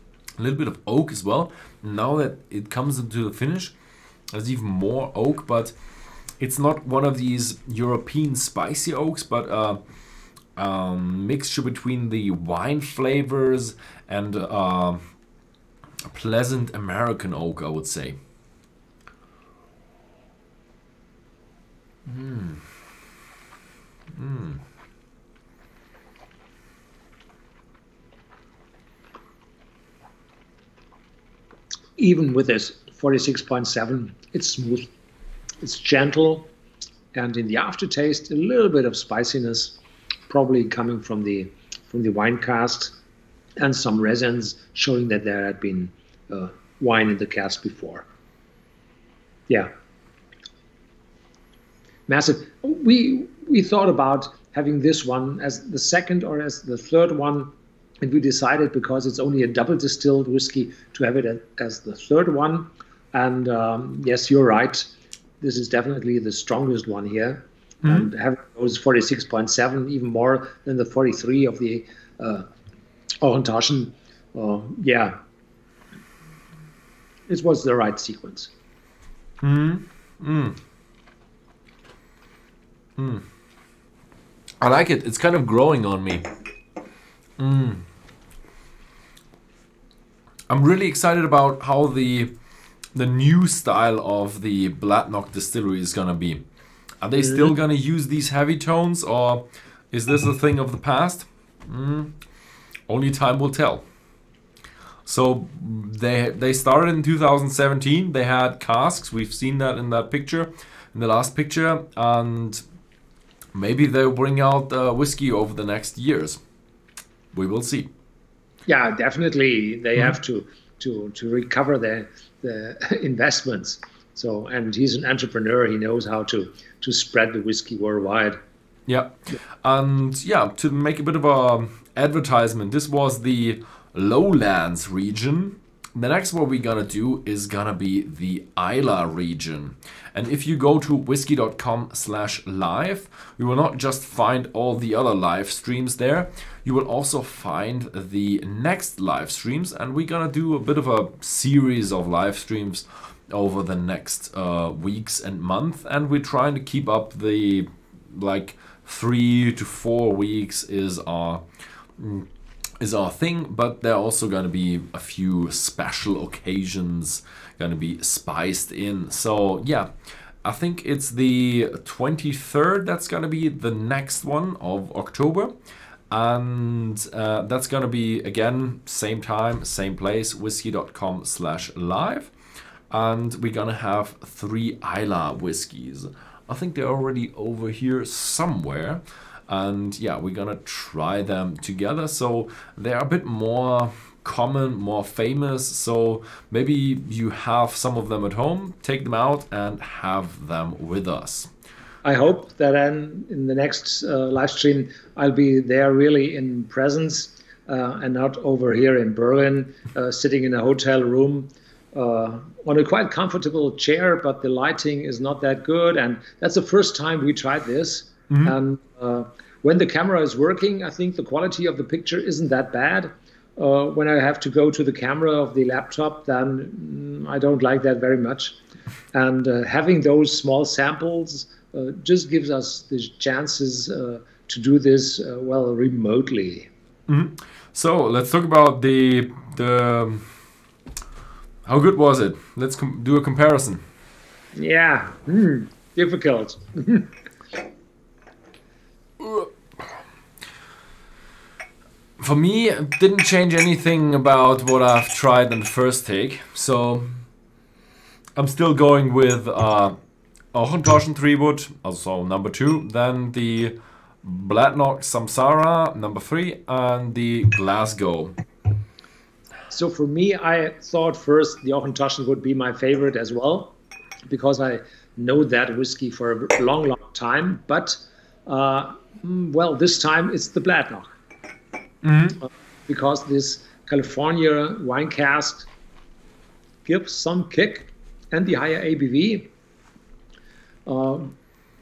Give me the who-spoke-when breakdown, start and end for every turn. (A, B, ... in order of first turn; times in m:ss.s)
0:00.4-0:03.7 A
0:04.3-0:05.7 A
0:06.4-0:09.8 A
0:10.5-0:15.0 A
0:16.0-0:18.2 A
0:22.0-0:22.6 A
0:24.1-0:24.6 A
0:32.0-0:34.9 B
0:35.6-0:36.5 B
0:37.1-0:39.8 B
0:40.3-0:42.9 B
0:43.6-0:48.0 B
0:52.1-1:04.9 B
1:05.4-1:12.5 B
1:13.2-1:15.2 B
1:17.3-1:18.5 B
1:19.4-1:20.6 A
1:23.0-1:23.2 A
1:24.6-1:26.2 A
1:27.4-1:27.8 A
1:30.5-1:32.3 A
1:32.9-1:36.4 A
1:37.0-1:42.1 A
1:42.9-1:43.8 A
1:45.0-1:52.6 A
1:53.5-1:56.4 A
1:57.3-1:57.9 A
1:58.7-2:08.4 B
2:08.9-2:41.4 A
2:42.0-2:42.3 A
2:42.8-2:49.9 A
2:50.4-2:55.5 A
2:56.1-3:02.3 A
3:02.9-3:21.5 A
3:22.0-3:48.6 B
3:49.1-3:56.7 B
3:57.1-4:00.2 A
4:01.6-4:03.8 A
4:04.5-4:07.1 B
4:09.2-4:09.5 A
4:12.2-4:17.2 A
4:18.4-4:19.9 A
4:20.5-4:28.3 A
4:29.7-4:33.7 B
4:34.3-4:41.1 B
4:42.0-4:42.4 A
4:42.9-4:45.7 B
4:46.8-4:49.5 B
4:50.8-4:51.3 B